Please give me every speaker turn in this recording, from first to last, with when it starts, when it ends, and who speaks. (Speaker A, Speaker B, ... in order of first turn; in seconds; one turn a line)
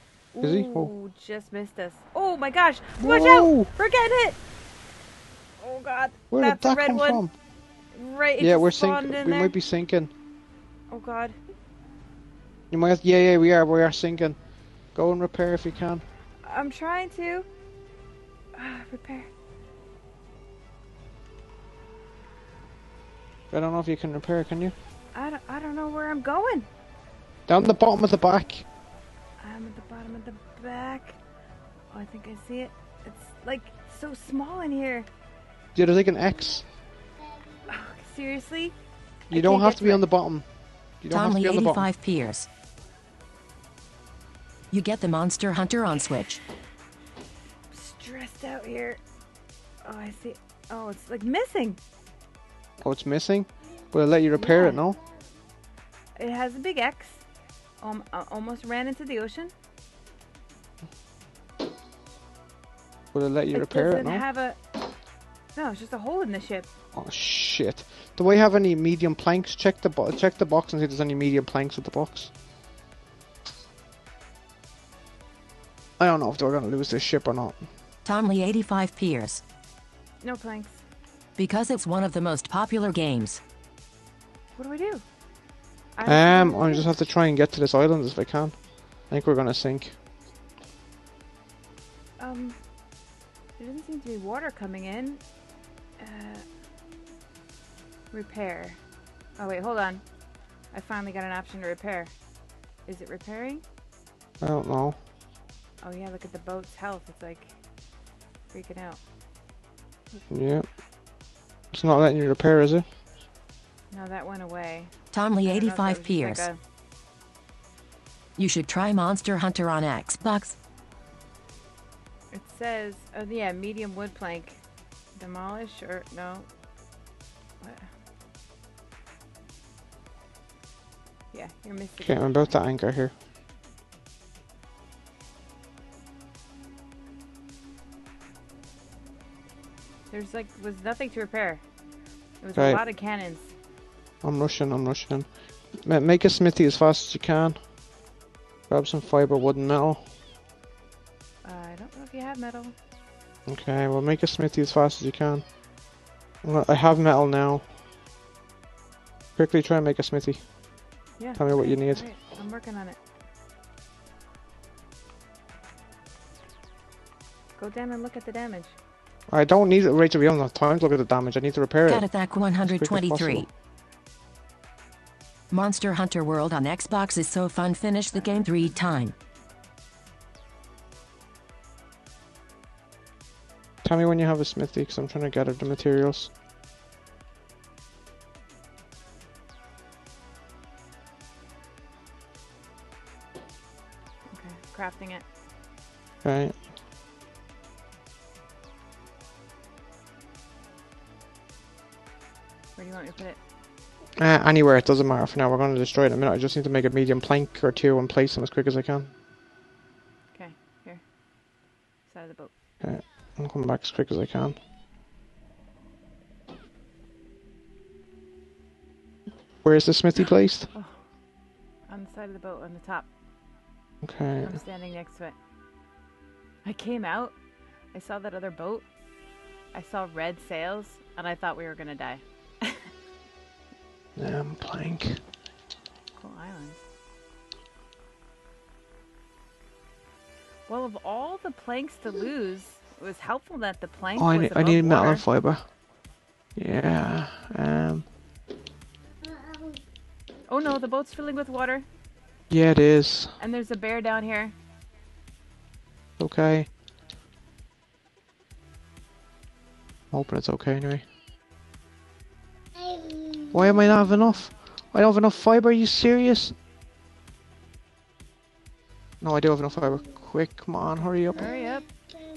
Speaker A: 0.3-4.4
Speaker B: 0.4-0.9
Speaker B: 3.0-3.7
Speaker A: 5.6-7.2
Speaker B: 6.3-7.3
Speaker A: 7.9-9.5
Speaker B: 8.4-10.1
Speaker A: 10.9-11.4
Speaker B: 12.7-14.4
Speaker B: 14.9-16.0
Speaker A: 16.4-17.5
Speaker A: 18.5-19.3
Speaker B: 23.5-24.7
Speaker A: 25.1-26.7
Speaker B: 27.5-28.6
Speaker A: 29.4-31.2
Speaker A: 31.9-35.1
Speaker B: 35.7-36.6
Speaker A: 37.7-38.7
Speaker B: 39.3-40.5
Speaker A: 39.3-40.0
Speaker B: 41.0-41.9
Speaker C: 41.1-42.5
Speaker C: 44.7-46.4
Speaker A: 47.7-49.0
Speaker A: 49.8-51.8
Speaker B: 52.8-55.0
Speaker A: 54.3-54.8
Speaker A: 56.1-57.2
Speaker A: 57.8-59.5
Speaker B: 63.1-64.2
Speaker A: 63.5-64.6
Speaker A: 65.5-66.7
Speaker B: 66.9-72.3
Speaker B: 76.0-77.6
Speaker C: 78.0-79.4
Speaker A: 80.2-80.8
Speaker C: 81.3-83.4
Speaker A: 84.5-85.0
Speaker A: 85.9-86.9
Speaker B: 86.0-90.0
Speaker A: 92.2-92.6
Speaker A: 93.6-95.2
Speaker A: 96.0-96.4
Speaker A: 98.1-98.8
Speaker A: 99.4-100.0
Speaker A: 100.7-102.1
Speaker A: 102.8-103.6
Speaker B: 104.4-105.0
Speaker A: 105.8-107.6
Speaker A: 108.5-109.0
Speaker B: 110.3-110.7
Speaker B: 111.7-112.8
Speaker A: 113.9-116.6
Speaker C: 115.1-116.5
Speaker C: 118.4-120.5
Speaker A: 122.3-124.6
Speaker A: 125.1-126.5
Speaker A: 127.6-127.9
Speaker A: 131.3-132.6
Speaker B: 132.0-133.1
Speaker A: 140.1-141.6
Speaker A: 142.4-143.5
Speaker B: 144.2-147.6
Speaker B: 148.7-150.1
Speaker A: 151.4-152.7
Speaker B: 153.5-155.4
Speaker B: 156.4-157.7
Speaker B: 159.3-160.4
Speaker A: 161.2-163.0
Speaker B: 161.3-162.0
Speaker A: 167.6-168.7
Speaker B: 169.3-172.1
Speaker C: 171.9-173.5
Speaker B: 172.6-173.5
Speaker C: 175.5-179.1
Speaker A: 178.1-178.4
Speaker B: 183.8-186.3
Speaker A: 194.3-195.2
Speaker B: 196.2-196.6
Speaker A: 202.8-203.4
Speaker B: 204.2-209.1
Speaker A: 210.3-211.0
Speaker A: 212.1-212.5
Speaker B: 212.8-214.6
Speaker B: 219.6-220.7
Speaker A: 220.7-221.0
Speaker A: 221.9-223.1
Speaker B: 224.0-224.6
Speaker A: 224.4-225.3
Speaker A: 226.6-227.3
Speaker A: 227.9-228.8
Speaker A: 229.7-232.9
Speaker B: 234.2-235.2
Speaker A: 236.1-236.8
Speaker A: 240.7-245.2
Speaker B: 244.2-245.7
Speaker B: 246.6-248.1
Speaker A: 250.5-251.8
Speaker B: 252.5-253.4
Speaker A: 253.4-254.5
Speaker B: 256.2-256.7
Speaker B: 260.1-261.1
Speaker B: 263.5-266.6
Speaker B: 269.2-271.5
Speaker A: 271.3-271.9